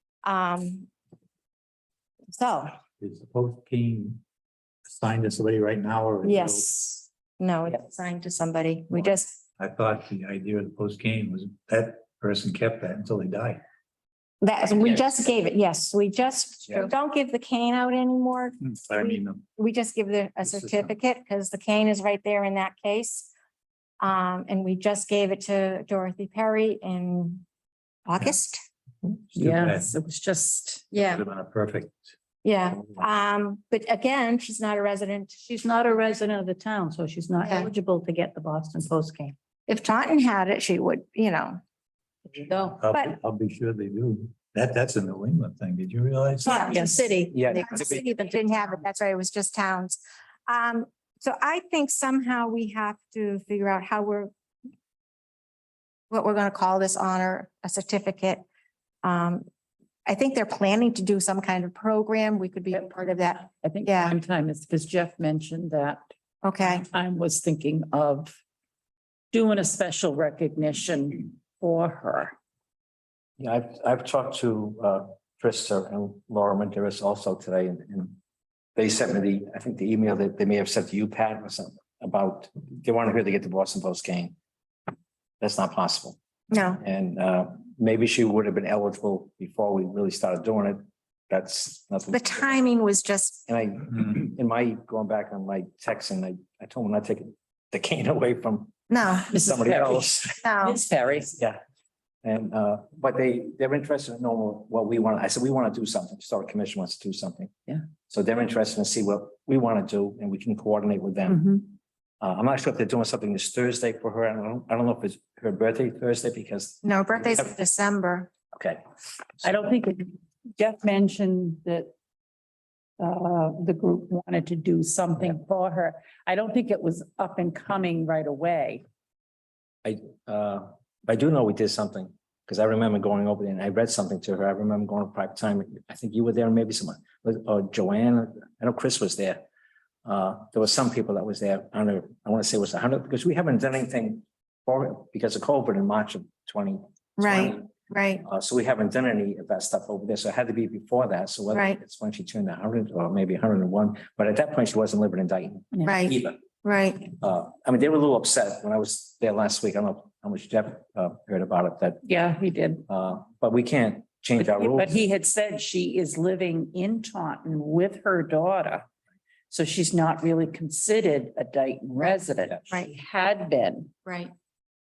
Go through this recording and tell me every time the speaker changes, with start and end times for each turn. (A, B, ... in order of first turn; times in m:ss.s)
0:00.2-0:00.9 A
0:02.3-0:02.8 A
0:03.0-0:04.2 B
0:04.8-0:06.7 B
0:06.2-0:09.4 A
0:09.6-0:13.6 B
0:14.4-0:23.3 A
0:18.6-0:19.4 B
0:20.4-0:20.9 B
0:24.0-0:27.4 A
0:28.0-0:28.6 A
0:29.3-0:30.0 B
0:29.3-0:30.9 C
0:30.9-0:32.1 B
0:30.9-0:31.2 A
0:32.4-0:35.4 A
0:35.4-0:39.3 D
0:37.4-0:37.7 A
0:39.7-0:41.6 A
0:42.4-0:42.8 D
0:42.8-0:46.7 B
0:46.4-0:47.0 A
0:46.6-0:48.4 D
0:46.7-0:47.0 C
0:47.3-0:48.0 E
0:47.5-0:54.3 A
0:56.1-0:58.4 A
0:59.0-0:59.4 A
1:00.0-1:04.2 A
1:02.7-1:06.0 C
1:06.4-1:06.8 A
1:06.6-1:08.3 C
1:09.3-1:12.3 C
1:13.4-1:18.2 E
1:18.8-1:24.3 E
1:25.4-1:26.2 E
1:26.5-1:26.8 A
1:26.8-1:32.5 E
1:32.1-1:33.4 A
1:33.5-1:40.3 E
1:38.9-1:39.3 A
1:39.3-1:41.4 C
1:40.4-1:40.8 A
1:42.2-1:47.5 E
1:48.1-1:51.6 E
1:51.3-1:51.6 C
1:52.2-1:57.5 E
1:56.8-1:58.3 A
1:58.5-1:58.8 E
1:59.4-2:01.9 C
2:03.0-2:08.8 C
2:09.8-2:19.4 E
2:20.0-2:27.7 E
2:27.2-2:28.2 A
2:28.2-2:36.4 E
2:31.5-2:31.8 A
2:35.7-2:36.1 C
2:35.8-2:37.1 A
2:37.2-2:42.0 E
2:42.0-2:42.8 C
2:42.9-2:45.0 E
2:44.4-2:48.8 C
2:49.5-2:53.9 C
2:54.0-2:54.3 A